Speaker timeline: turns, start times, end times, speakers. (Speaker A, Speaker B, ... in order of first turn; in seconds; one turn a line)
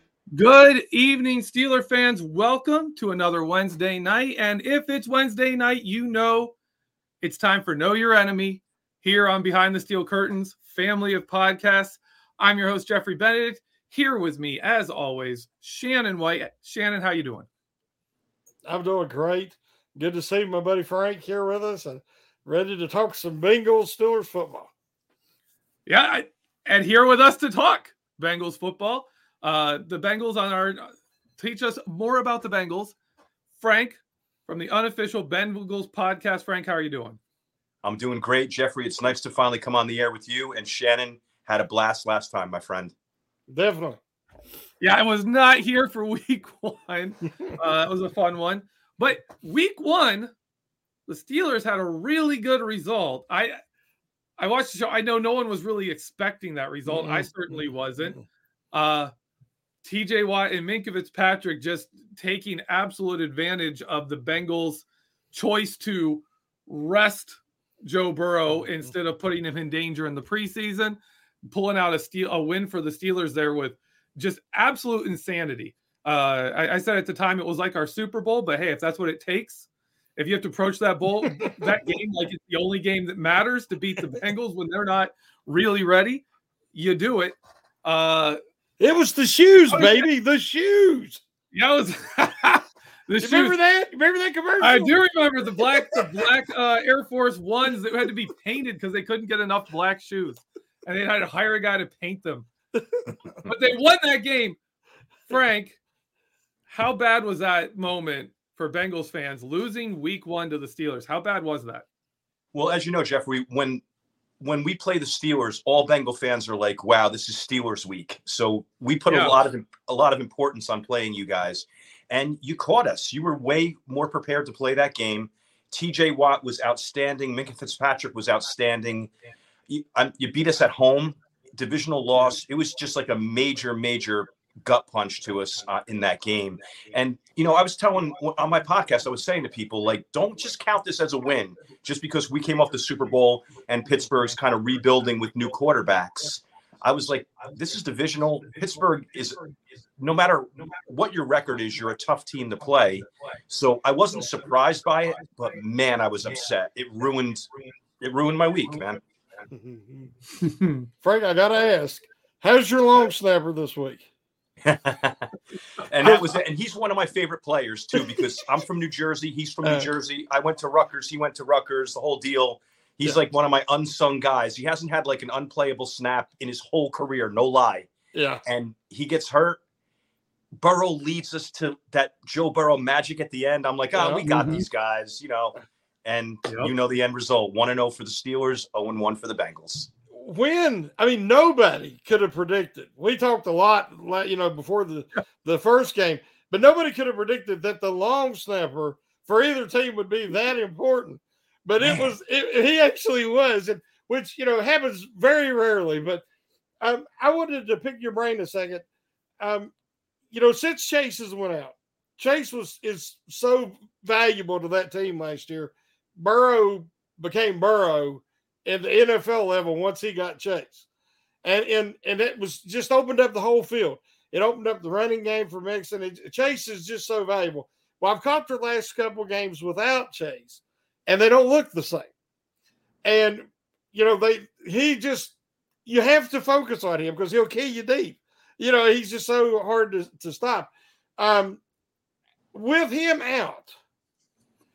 Speaker A: 0.3-6.5
Speaker A: 7.2-17.5
Speaker B: 18.6-24.7
Speaker A: 25.9-32.9
Speaker A: 33.6-37.2
Speaker C: 37.8-42.9
Speaker B: 43.5-44.0
Speaker A: 44.8-50.3
Speaker A: 51.1-53.6
Speaker A: 54.4-58.2
Speaker B: 56.9-57.2
Speaker A: 58.7-59.1
Speaker A: 59.8-71.0
Speaker A: 71.5-88.4
Speaker B: 88.8-91.2
Speaker A: 89.7-90.0
Speaker A: 91.5-93.5
Speaker B: 93.2-95.0
Speaker A: 94.6-102.5
Speaker B: 95.8-96.1
Speaker A: 103.4-104.6
Speaker A: 105.3-105.8
Speaker A: 106.7-111.8
Speaker C: 112.5-113.8
Speaker C: 114.4-129.1
Speaker A: 119.1-119.4
Speaker C: 129.7-157.5
Speaker C: 158.0-159.0
Speaker B: 159.5-160.1
Speaker A: 160.4-160.7
Speaker B: 161.0-164.1
Speaker C: 164.6-165.3
Speaker C: 165.8-177.9
Speaker B: 178.1-178.4
Speaker C: 178.4-179.6
Speaker C: 180.6-189.9
Speaker B: 183.9-184.6
Speaker A: 184.3-184.6
Speaker A: 186.4-186.7
Speaker B: 190.1-206.2
Speaker B: 206.8-208.8
Speaker B: 209.4-209.7
Speaker B: 210.3-220.8
Speaker B: 221.4-232.1
Speaker B: 233.0-235.3
Speaker B: 235.8-241.6
Speaker B: 242.5-243.7